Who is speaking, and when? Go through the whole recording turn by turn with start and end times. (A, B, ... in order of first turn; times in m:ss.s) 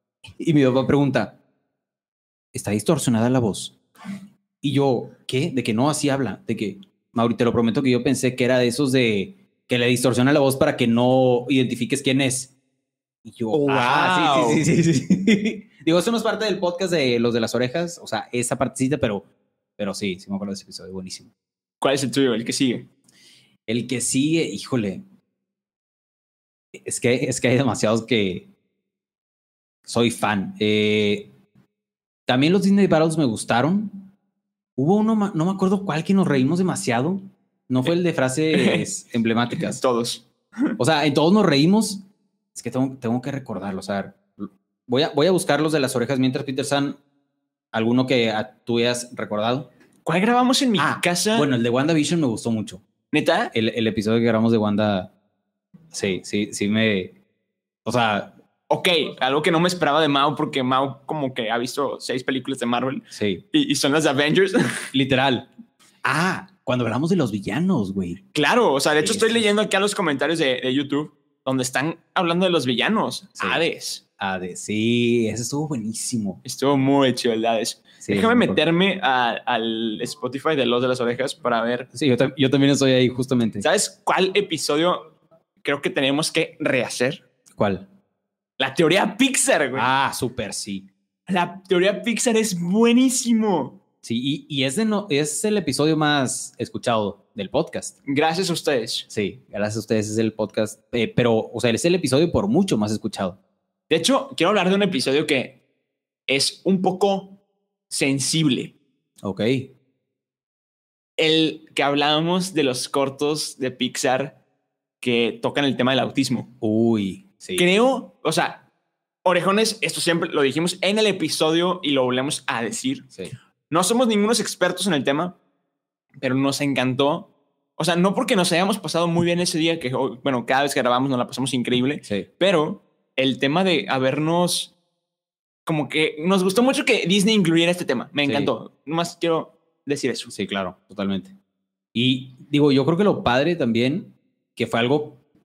0:00.4-0:01.4 A
0:02.5-0:03.8 A
0:04.6-0:12.5 A
0:13.2-0:21.3 A
0:13.5-0:14.6 B
0:21.8-0:22.9 B
0:23.7-0:25.0 A
0:26.7-0:28.5 A
0:29.8-0:31.3 A
0:32.3-0:34.1 A
0:34.8-0:39.8 A
0:38.5-0:38.9 B
0:39.5-0:40.7 B
0:40.8-0:47.0 A
0:47.7-0:49.7 A
0:50.0-0:51.5 B
0:50.8-0:52.8 A
0:53.1-0:53.5 B
0:53.5-0:55.1 A
0:55.9-0:57.2 A
0:57.8-0:58.4 A
0:58.7-1:04.9 B
1:03.1-1:03.4 A
1:04.9-1:05.5 A
1:06.0-1:08.2 A
1:08.3-1:14.0 B
1:09.0-1:09.5 A
1:13.4-1:13.6 A
1:14.2-1:16.4 A
1:16.4-1:21.9 B
1:18.0-1:18.6 A
1:21.9-1:23.6 A
1:23.6-1:25.1 B
1:25.6-1:27.2 B
1:27.5-1:27.9 A
1:28.6-1:29.9 B
1:29.7-1:30.9 A
1:31.3-1:33.8 B
1:34.0-1:38.0 A
1:38.0-1:39.1 B
1:39.1-1:43.4 A
1:43.9-1:45.6 B
1:46.3-1:47.4 B
1:47.9-1:48.8 B
1:49.2-1:49.7 A
1:51.2-1:54.4 B
1:55.0-1:56.5 B
1:56.6-1:57.7 A
1:57.6-1:58.7 B
1:59.2-2:03.1 B
2:03.7-2:05.4 B
2:06.2-2:14.7 B
2:15.6-2:20.3 B
2:18.2-2:18.5 A
2:20.3-2:21.3 A
2:21.9-2:25.2 A